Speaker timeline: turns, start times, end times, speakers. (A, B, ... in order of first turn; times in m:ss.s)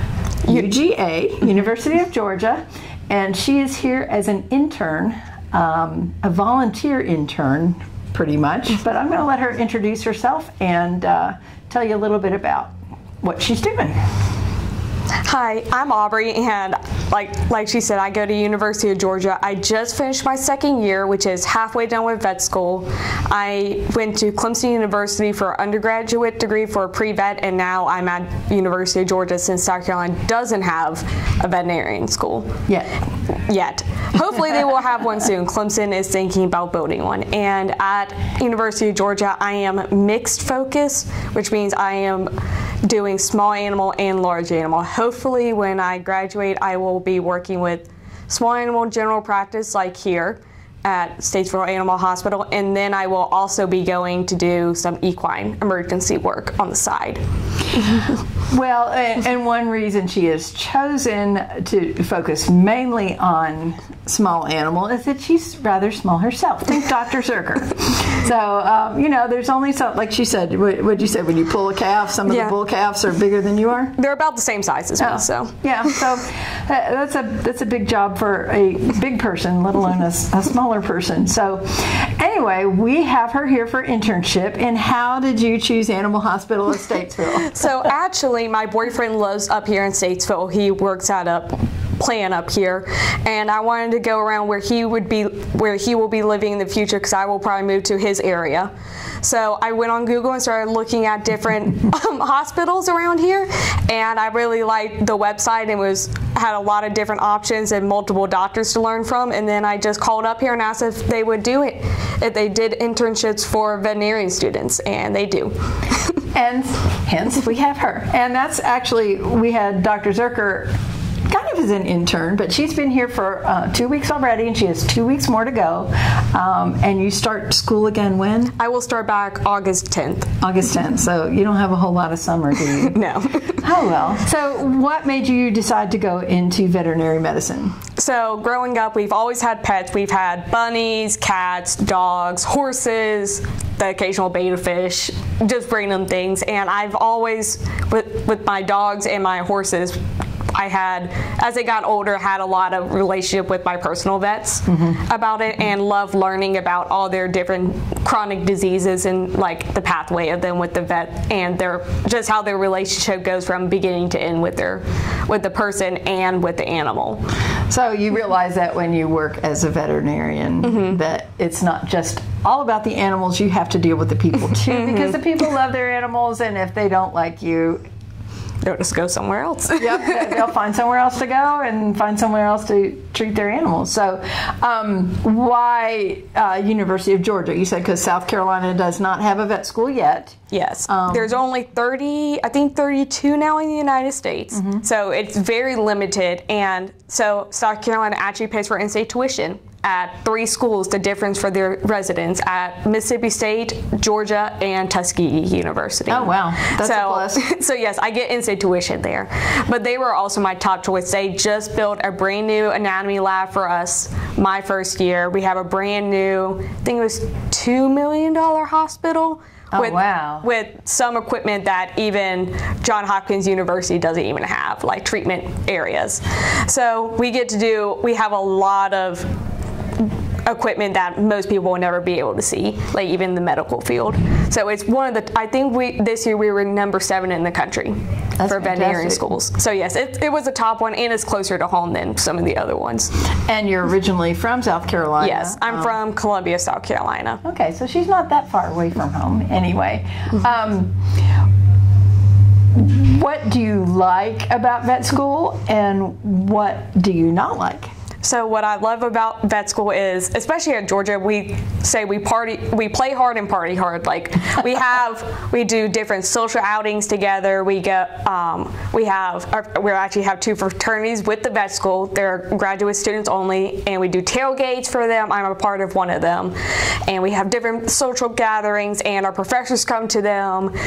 0:00.5-0:12.7 A
0:13.2-0:14.0 A
0:15.2-0:32.6 B
0:32.7-0:33.0 A
0:33.4-0:42.3 B
0:42.8-0:57.2 B
0:57.7-0:58.1 B
0:58.5-1:14.0 A
1:12.3-1:12.6 B
1:14.0-1:15.6 B
1:15.0-1:27.8 A
1:27.4-1:38.7 B
1:39.2-1:56.2 B
1:56.3-2:00.7 A
2:01.3-2:08.5 A
2:08.6-2:10.3 B
2:10.4-2:13.0 A
2:12.8-2:13.6 B
2:13.6-2:17.8 A
2:18.0-2:30.0 B
2:30.5-2:47.2 B
2:34.7-2:35.0 A
2:47.7-2:57.8 A
2:50.6-2:51.0 B
2:54.7-2:55.2 B
2:58.6-3:00.4 B
2:59.8-3:11.3 A
3:10.5-3:49.3 B
3:14.5-3:14.8 A
3:26.1-3:27.4 A
3:39.7-3:40.5 A
3:50.0-4:03.1 B
3:58.4-3:59.3 A
4:03.5-4:06.0 A
4:05.2-4:07.4 B
4:07.4-4:11.0 A
4:12.8-4:17.9 A
4:18.2-4:40.7 B